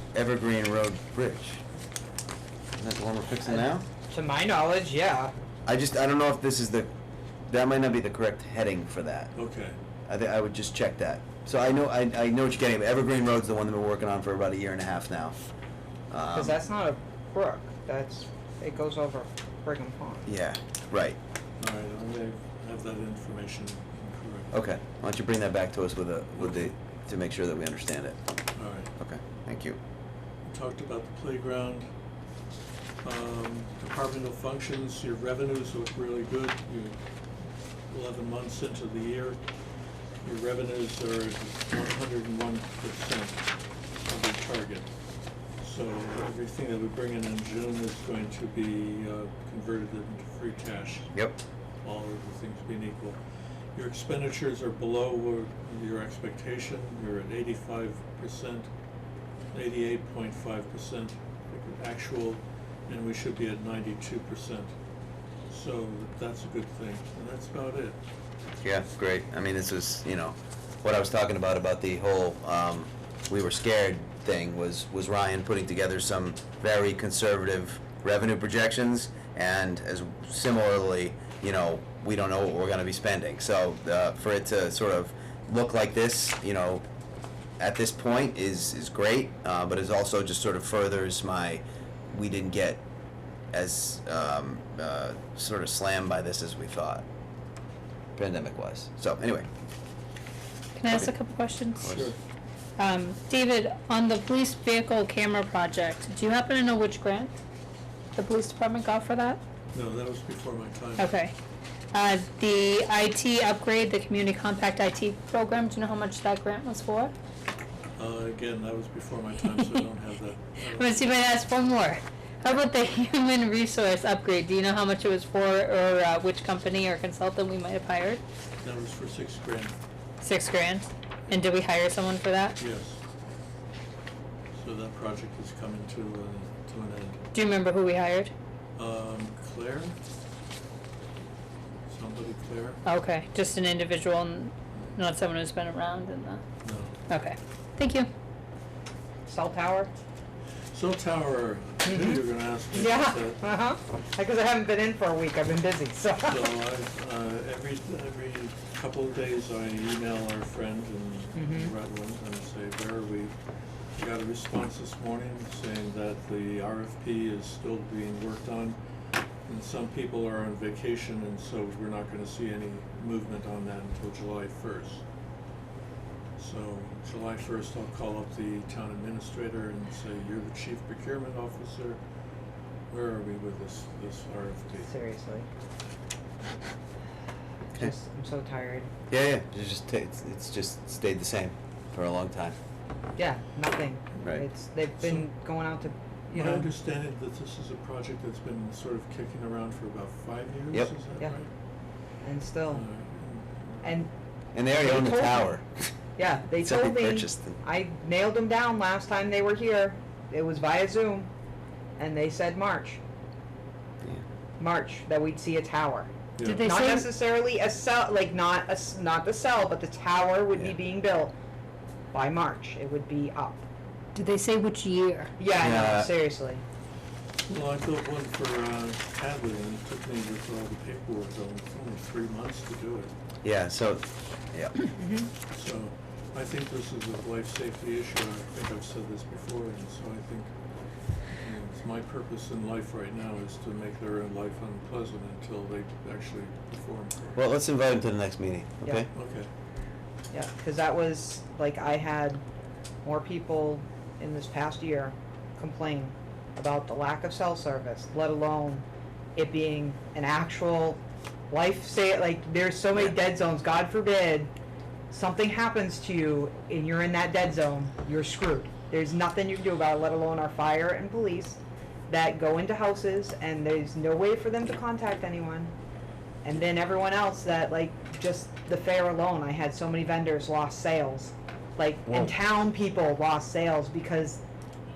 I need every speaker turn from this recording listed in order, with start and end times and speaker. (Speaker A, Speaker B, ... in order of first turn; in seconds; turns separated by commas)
Speaker A: 0.1-1.6, Speaker A: 2.8-3.8, Speaker B: 3.5-5.3, Speaker A: 5.7-6.9, Speaker A: 7.5-9.3, Speaker C: 9.3-9.8, Speaker A: 10.1-15.3, Speaker A: 16.1-16.6, Speaker B: 16.3-20.3, Speaker A: 20.2-21.2, Speaker C: 21.6-24.5, Speaker A: 24.5-28.2, Speaker C: 26.4-26.7, Speaker C: 28.5-28.9, Speaker A: 29.0-29.8, Speaker C: 30.5-31.9, Speaker C: 33.0-37.0, Speaker C: 37.9-39.4, Speaker C: 40.2-43.4, Speaker C: 44.0-44.9, Speaker C: 45.6-51.1, Speaker A: 51.1-51.4, Speaker C: 51.8-53.2, Speaker C: 53.7-58.7, Speaker C: 59.5-64.7, Speaker C: 65.5-68.0, Speaker A: 68.6-86.8, Speaker A: 87.6-92.8, Speaker A: 93.5-97.0, Speaker A: 98.2-99.5, Speaker D: 100.8-101.9, Speaker A: 100.9-101.1, Speaker A: 101.8-102.1, Speaker C: 101.8-102.2, Speaker D: 102.8-107.3, Speaker D: 108.1-109.4, Speaker C: 109.7-111.1, Speaker D: 111.0-111.3, Speaker D: 111.9-117.1, Speaker C: 118.0-121.0, Speaker D: 119.5-119.8, Speaker D: 120.7-128.2, Speaker C: 128.6-129.7, Speaker D: 130.2-132.6, Speaker C: 132.6-133.0, Speaker C: 134.5-137.2, Speaker D: 137.3-138.3, Speaker C: 138.8-139.9, Speaker C: 141.9-142.8, Speaker D: 142.8-146.4, Speaker C: 146.6-147.0, Speaker D: 147.1-148.1, Speaker B: 149.3-149.9, Speaker C: 150.7-153.4, Speaker B: 151.8-156.5, Speaker C: 156.2-163.3, Speaker B: 161.3-161.7, Speaker C: 164.0-168.8, Speaker C: 169.5-175.0, Speaker C: 176.4-182.0, Speaker C: 182.9-185.0, Speaker B: 184.8-185.5, Speaker B: 187.7-188.9, Speaker A: 189.1-192.6, Speaker B: 193.2-196.7, Speaker C: 196.3-201.5, Speaker B: 202.2-202.8, Speaker C: 202.7-203.9, Speaker B: 203.8-204.1, Speaker A: 204.5-205.9, Speaker B: 204.7-205.6, Speaker B: 206.2-211.3, Speaker A: 206.6-207.6, Speaker B: 212.0-213.0, Speaker B: 214.6-221.3, Speaker C: 216.3-216.7, Speaker D: 216.4-217.1, Speaker B: 222.1-223.6, Speaker D: 224.1-225.3, Speaker B: 225.4-226.6, Speaker A: 225.4-226.1, Speaker C: 227.4-233.1, Speaker A: 233.4-234.7, Speaker B: 234.9-235.3, Speaker C: 235.5-240.5, Speaker C: 241.4-247.4, Speaker A: 247.3-249.1, Speaker C: 249.1-249.5, Speaker B: 250.3-252.4, Speaker B: 253.0-258.8, Speaker B: 259.4-261.0, Speaker B: 261.5-264.5, Speaker B: 265.1-275.7, Speaker B: 276.4-284.4